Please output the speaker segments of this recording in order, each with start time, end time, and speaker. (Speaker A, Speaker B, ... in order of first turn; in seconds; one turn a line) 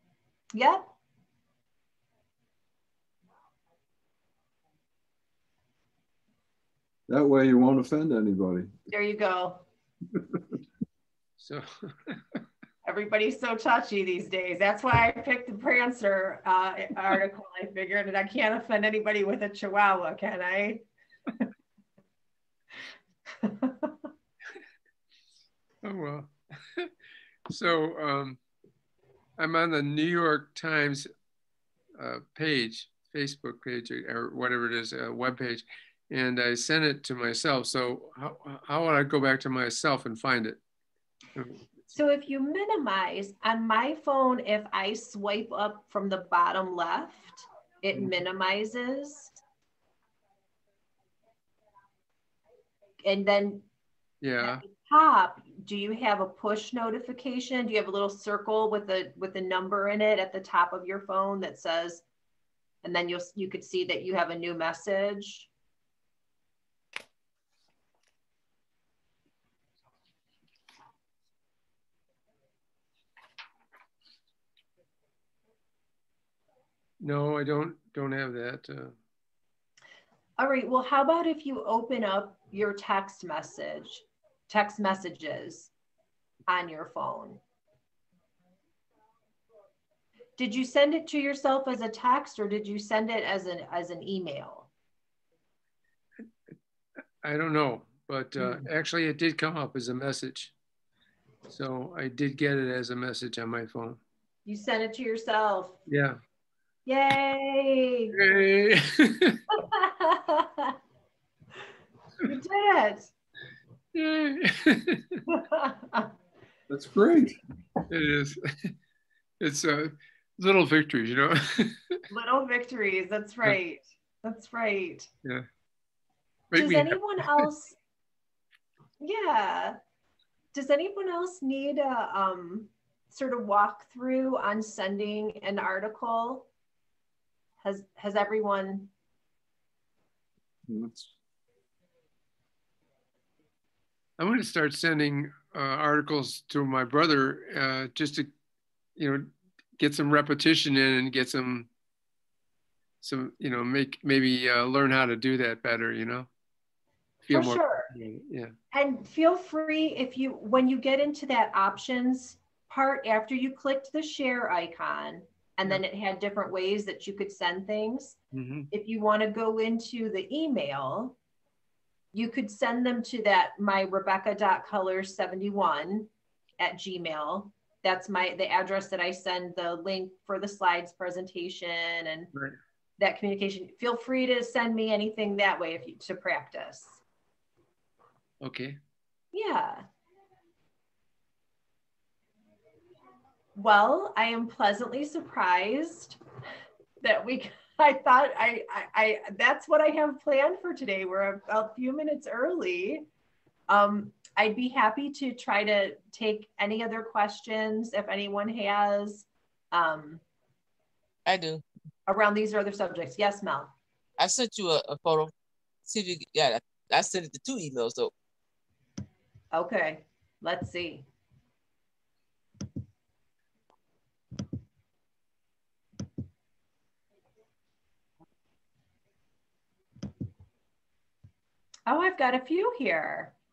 Speaker A: 0.5-0.9
Speaker B: 7.1-8.7
Speaker A: 8.9-9.6
Speaker C: 11.4-12.4
Speaker A: 12.8-20.8
Speaker A: 23.4-23.9
Speaker C: 25.8-26.9
Speaker C: 27.5-28.4
Speaker C: 29.4-31.1
Speaker C: 32.0-40.6
Speaker C: 41.4-41.9
Speaker A: 41.9-49.4
Speaker A: 53.0-53.7
Speaker C: 54.2-54.6
Speaker A: 54.4-62.0
Speaker A: 62.8-65.5
Speaker C: 77.0-79.0
Speaker A: 80.4-85.7
Speaker A: 86.5-87.4
Speaker A: 90.4-94.7
Speaker C: 97.2-100.5
Speaker A: 98.4-98.6
Speaker C: 101.5-104.0
Speaker A: 104.5-105.8
Speaker C: 105.9-106.2
Speaker A: 106.9-108.4
Speaker C: 108.1-109.4
Speaker A: 109.5-110.7
Speaker A: 112.2-113.1
Speaker C: 113.9-115.2
Speaker A: 115.3-116.1
Speaker B: 116.7-117.4
Speaker C: 117.9-118.7
Speaker C: 119.4-122.0
Speaker A: 122.1-125.1
Speaker C: 126.5-127.5
Speaker A: 126.5-127.8
Speaker A: 129.0-129.8
Speaker A: 130.5-136.5
Speaker A: 137.6-138.9
Speaker B: 140.7-141.1
Speaker C: 144.2-148.3
Speaker C: 149.0-151.7
Speaker C: 153.0-156.3
Speaker C: 157.3-158.5
Speaker A: 157.3-157.9
Speaker A: 158.7-168.2
Speaker C: 168.3-168.7
Speaker A: 168.7-171.2
Speaker A: 172.1-182.3
Speaker A: 183.0-187.0
Speaker C: 188.4-188.8
Speaker A: 189.3-189.9
Speaker A: 193.6-196.2
Speaker A: 197.0-203.1
Speaker A: 203.7-210.2
Speaker D: 211.3-211.6
Speaker A: 212.1-213.7
Speaker D: 214.2-215.3
Speaker D: 215.9-218.1
Speaker A: 219.5-221.1
Speaker A: 231.9-233.3